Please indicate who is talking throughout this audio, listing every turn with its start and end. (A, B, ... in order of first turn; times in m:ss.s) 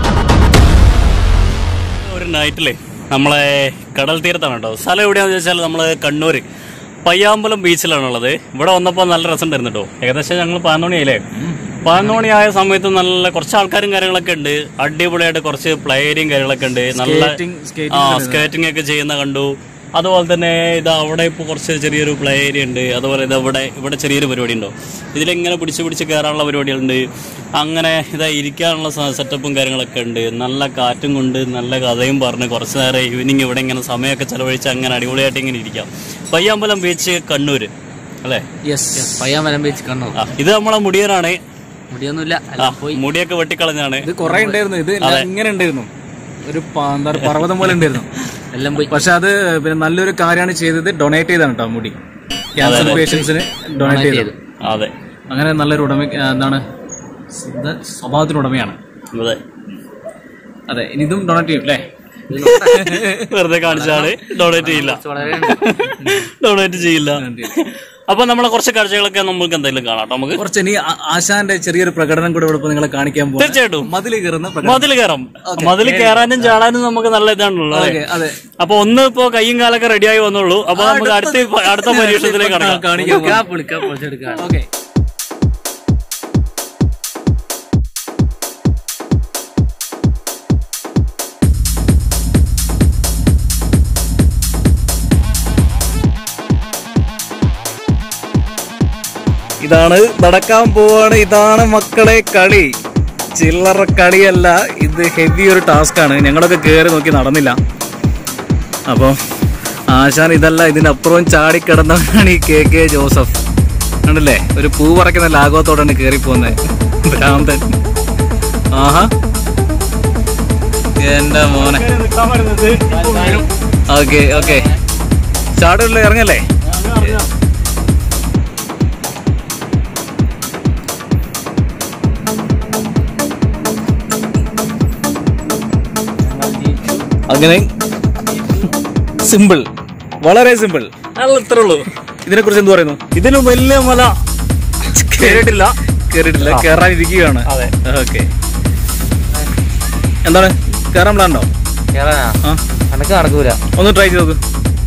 0:02.0-0:06.4 A
0:07.0-0:11.2 A
0:11.8-0:17.4 A
0:16.9-0:18.5 B
0:17.9-0:27.0 A
0:27.6-0:37.7 A
0:38.7-0:39.1 B
0:38.9-0:40.2 C
0:40.1-0:41.4 A
0:41.9-0:43.0 C
0:42.6-0:44.1 A
0:44.0-0:45.9 B
0:44.2-0:44.6 C
0:45.0-0:45.3 A
0:46.4-0:48.1 B
0:47.2-0:48.0 A
0:48.5-0:48.9 C
0:48.9-0:52.0 B
0:52.6-0:54.3 B
0:52.6-0:53.1 A
0:52.7-0:53.3 C
0:53.8-0:54.4 C
0:54.6-0:54.9 A
0:55.3-0:56.6 B
0:57.3-0:58.8 B
0:59.1-0:59.4 A
1:00.7-1:01.8 B
1:02.3-1:02.9 C
1:02.4-1:10.4 A
1:02.6-1:03.3 B
1:03.7-1:05.7 C
1:06.0-1:06.3 B
1:07.2-1:07.6 B
1:10.4-1:14.9 B
1:13.4-1:13.9 A
1:14.6-1:18.0 A
1:15.4-1:16.6 B
1:17.7-1:18.4 B
1:18.6-1:22.9 A
1:20.7-1:23.5 B
1:22.9-1:24.5 C
1:24.3-1:24.7 B
1:39.6-1:42.7 B
1:43.4-1:47.6 B
1:48.9-1:49.2 B
1:49.9-1:53.4 B
1:54.1-1:57.7 B
1:58.7-1:59.1 B
2:01.0-2:01.8 B
2:01.5-2:03.5 A
2:03.9-2:04.7 B
2:05.6-2:06.4 B
2:06.7-2:07.3 A
2:16.2-2:17.0 C
2:17.3-2:17.7 B
2:18.4-2:18.6 C
2:19.2-2:19.7 B
2:20.2-2:20.9 B
2:21.2-2:21.9 A
2:22.2-2:23.1 B
2:23.2-2:24.1 A
2:24.8-2:25.7 A
2:25.2-2:28.3 B
2:26.4-2:26.7 A
2:27.5-2:27.7 A
2:30.2-2:31.5 B
2:31.9-2:32.4 C
2:32.9-2:33.6 C
2:33.7-2:34.4 B